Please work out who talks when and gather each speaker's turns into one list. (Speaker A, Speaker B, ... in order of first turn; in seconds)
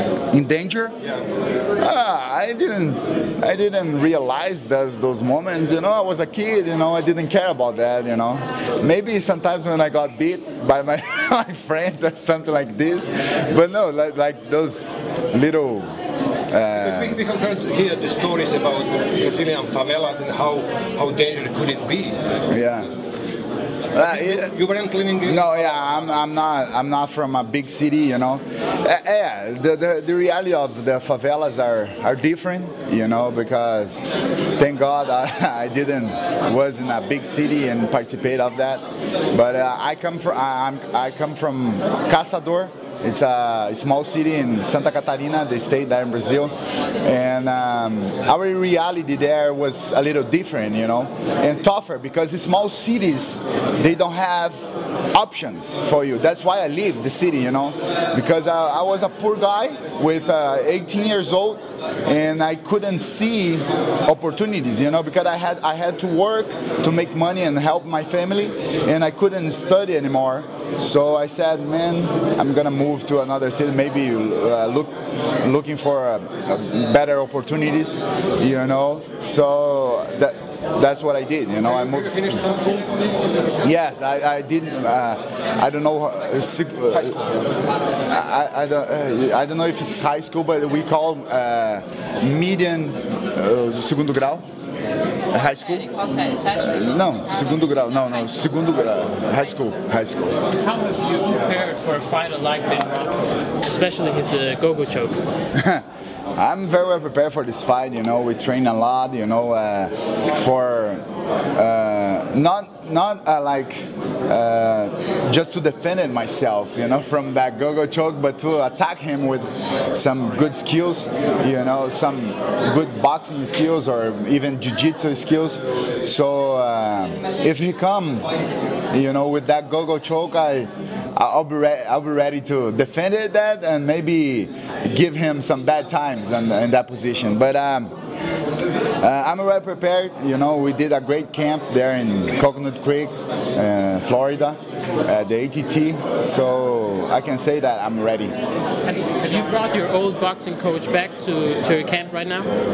Speaker A: 0.3-0.9, 1.8-15.9, 16.5-17.2, 22.5-22.9, 23.9-24.5, 25.3-82.4, 83.6-87.2, 88.1-94.5, 95.3-100.4, 105.5-105.8, 106.4-111.0, 111.5-128.3, 128.9-137.9, 139.0-148.3
Speaker B: 16.8-22.2, 23.9-25.7, 81.8-83.2, 87.0-87.3
Speaker C: 100.6-105.2, 148.8-152.5